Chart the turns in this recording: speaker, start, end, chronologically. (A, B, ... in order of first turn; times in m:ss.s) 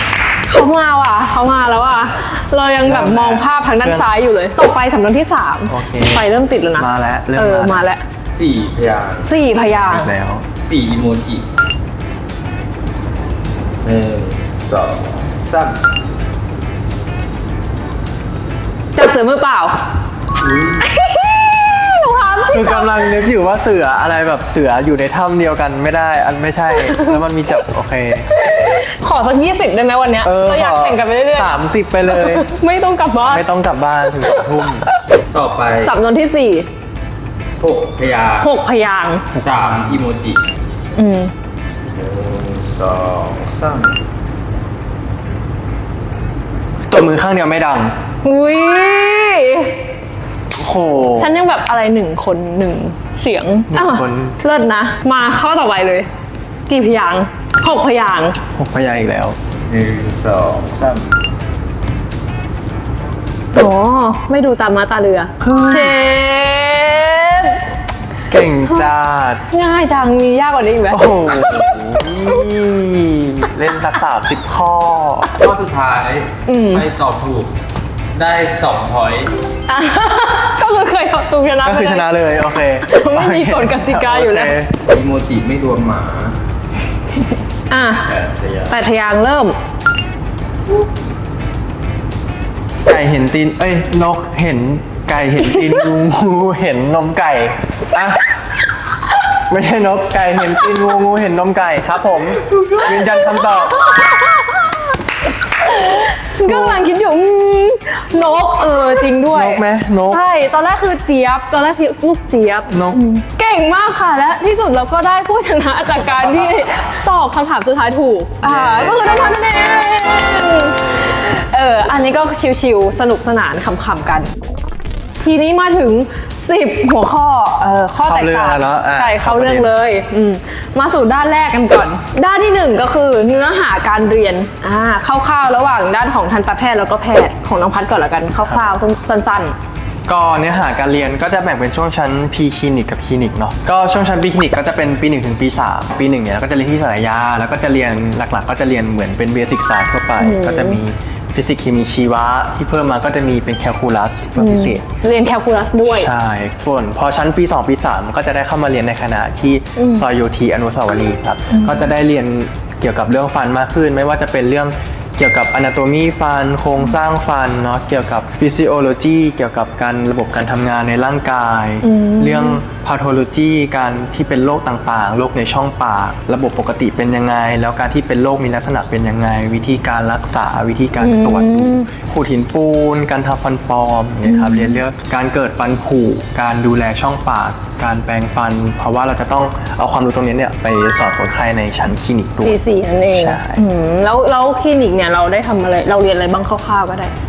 0:00.4-0:08.0 A
0:02.8-0:04.1 B
0:05.7-0:07.8 B
0:08.3-0:09.4 C
0:09.2-0:10.1 A
0:09.7-0:10.4 B
0:10.6-0:11.5 C
0:13.8-0:15.8 C
0:19.0-0:19.9 A
0:20.4-0:20.9 C
0:20.8-0:23.1 A
0:22.5-0:28.3 B
0:26.9-0:27.1 A
0:28.3-0:31.5 A
0:30.2-0:32.5 B
0:32.0-0:33.4 A
0:33.2-0:34.8 B
0:34.2-0:34.9 A
0:35.3-0:36.0 C
0:35.8-0:36.7 A
0:37.6-0:38.5 C
0:38.4-0:39.3 A
0:39.3-0:40.5 C
0:39.4-0:39.8 B
0:40.9-0:41.3 A
0:41.8-0:44.0 C
0:46.9-0:48.0 B
0:48.2-0:49.8 A
0:50.5-0:51.4 B
0:51.2-0:56.1 A
0:53.7-0:54.4 B
0:56.7-0:58.4 A
0:58.5-0:59.4 B
0:59.6-1:01.2 C
1:03.5-1:07.6 A
1:05.4-1:06.0 B
1:08.3-1:09.4 B
1:09.5-1:11.1 A
1:10.9-1:15.3 B
1:15.4-1:17.6 C
1:16.5-1:16.9 A
1:18.1-1:19.3 C
1:19.7-1:24.5 A
1:21.6-1:24.7 B
1:24.9-1:26.4 C
1:27.7-1:28.1 A
1:28.0-1:28.8 C
1:28.7-1:29.6 A
1:32.8-1:38.4 B
1:39.3-1:44.0 B
1:42.8-1:44.9 A
1:45.6-2:04.3 A
1:46.4-1:46.9 B
1:49.3-1:50.2 B
1:52.7-1:53.0 B
1:58.4-1:59.4 B
2:05.2-2:19.5 A
2:08.0-2:09.7 B
2:18.4-2:18.8 B
2:20.1-2:34.8 B
2:30.2-2:30.8 A
2:34.4-2:36.1 A
2:35.8-3:12.6 B
2:39.8-2:40.0 A
2:41.5-2:41.8 A
2:51.8-2:52.6 A
3:01.0-3:01.9 A
3:04.2-3:04.8 A
3:12.4-3:17.1 A
3:13.1-3:13.6 B